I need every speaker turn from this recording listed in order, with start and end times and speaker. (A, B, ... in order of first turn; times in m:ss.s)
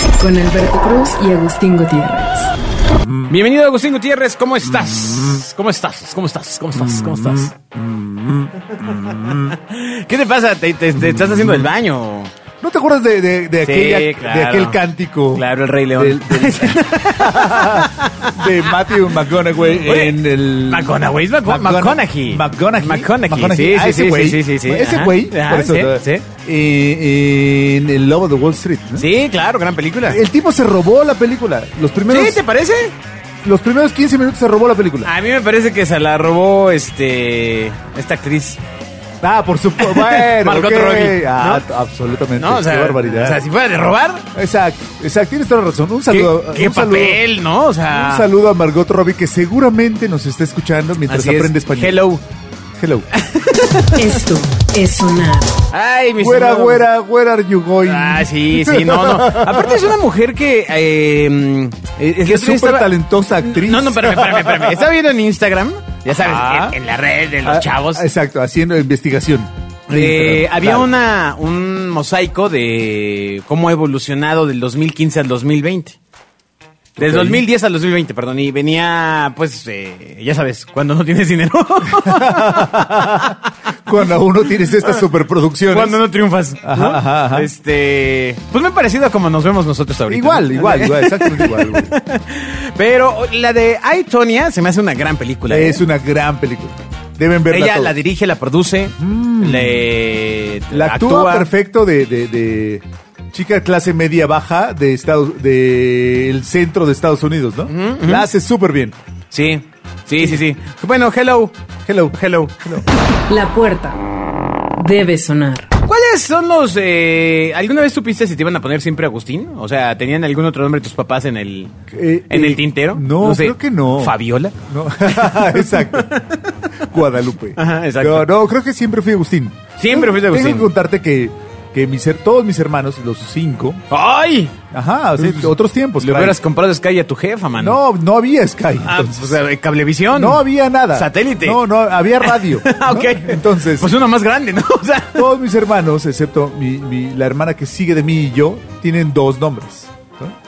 0:00.2-0:02.5 A
0:02.9-0:03.3 B
0:03.3-0:07.5 C
0:04.8-0:05.4 B
0:06.8-0:09.6 B
0:08.8-0:12.3 C
0:11.0-0:11.6 B
0:12.6-0:29.1 B
0:13.6-0:14.8 C
0:15.3-0:18.6 C
0:19.5-0:26.3 C
0:29.0-0:30.2 C
0:30.1-0:32.4 B
0:32.1-0:33.0 C
0:33.4-0:35.1 B
0:35.0-0:38.6 C
0:39.2-0:43.4 B
0:39.8-0:41.6 C
0:42.4-0:44.2 C
0:44.3-0:47.2 B
0:46.1-0:48.3 C
0:47.9-0:52.0 B
0:51.1-0:52.2 C
0:52.8-0:53.1 B
0:53.1-0:54.0 C
0:54.0-0:55.6 A
0:55.7-0:56.9 C
0:56.2-0:59.8 B
0:57.8-1:08.0 C
1:02.2-1:04.7 B
1:06.1-1:06.8 B
1:07.4-1:10.9 B
1:09.9-1:16.0 C
1:17.0-1:17.4 B
1:17.0-1:23.4 C
1:22.0-1:26.0 B
1:25.7-1:35.8 C
1:26.6-1:27.5 B
1:30.1-1:31.9 B
1:35.5-1:38.0 B
1:37.5-1:41.5 C
1:39.0-1:39.8 B
1:40.7-1:49.0 B
1:47.7-1:48.3 C
1:49.3-1:51.5 C
1:51.9-1:52.9 B
1:52.1-1:52.8 C
1:53.3-1:54.0 A
1:54.7-1:55.7 A
1:55.9-2:01.7 C
2:01.9-2:06.1 B
2:02.3-2:06.9 C
2:06.9-2:13.8 B
2:07.6-2:08.3 C
2:09.8-2:10.7 C
2:13.9-2:14.5 C
2:14.7-2:16.4 B
2:15.2-2:17.8 C
2:17.6-2:19.4 B
2:18.8-2:21.6 C
2:20.1-2:23.9 B
2:22.2-2:25.3 C
2:25.2-2:30.3 B